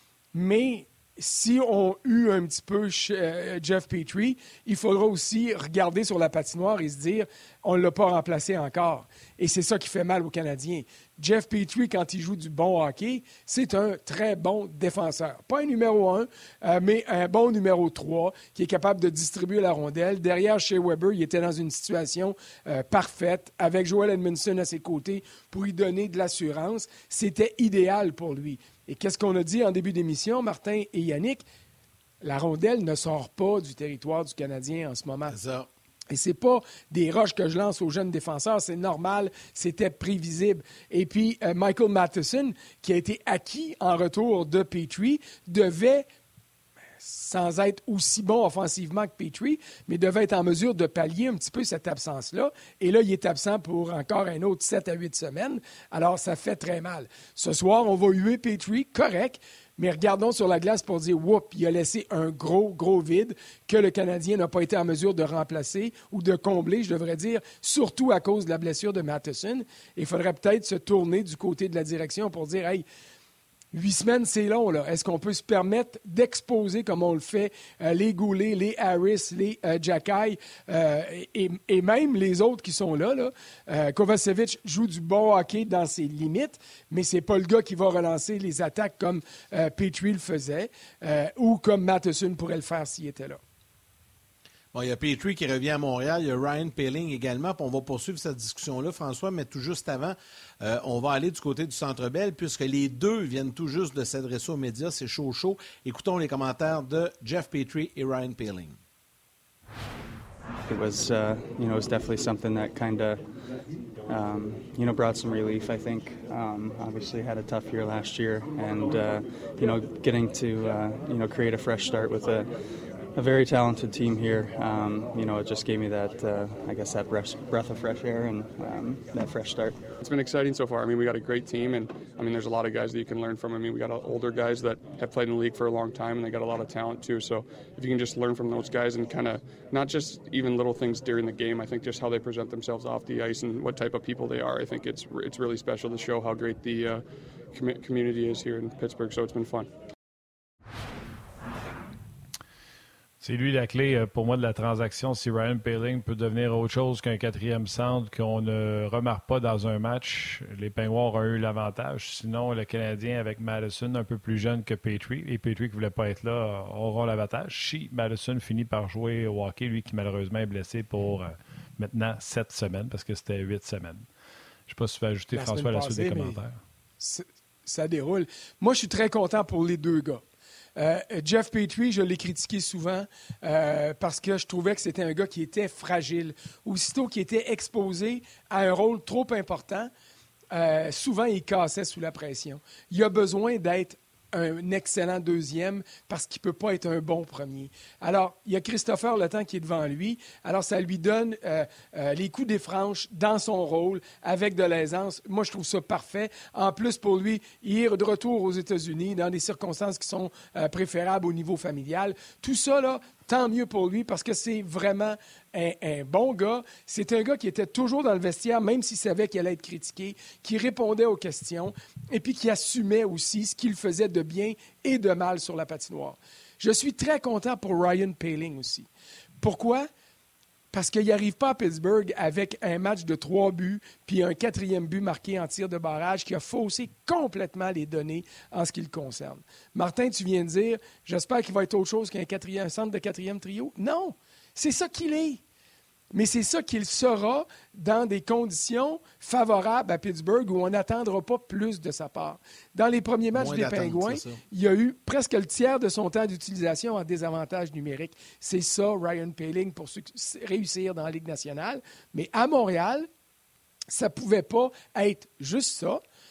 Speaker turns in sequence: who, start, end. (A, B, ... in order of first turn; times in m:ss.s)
0:00.3-0:31.4 A
0:32.2-0:35.4 A
0:35.3-0:35.7 B
0:36.1-0:46.1 A
0:47.0-1:12.8 A
1:13.7-1:33.4 A
1:34.7-1:48.8 B
1:50.7-1:53.3 C
1:54.1-2:02.5 C
2:03.1-2:09.8 C
2:10.0-2:29.7 D
2:33.2-2:54.0 E
2:54.7-2:56.6 E
2:55.3-2:56.4 A
2:57.0-3:00.2 A
3:00.8-3:09.9 A
3:10.5-3:48.9 A
3:49.4-3:49.9 A
3:50.7-4:05.4 A
4:06.1-4:23.1 A
4:13.3-4:14.4 B
4:23.9-4:26.0 A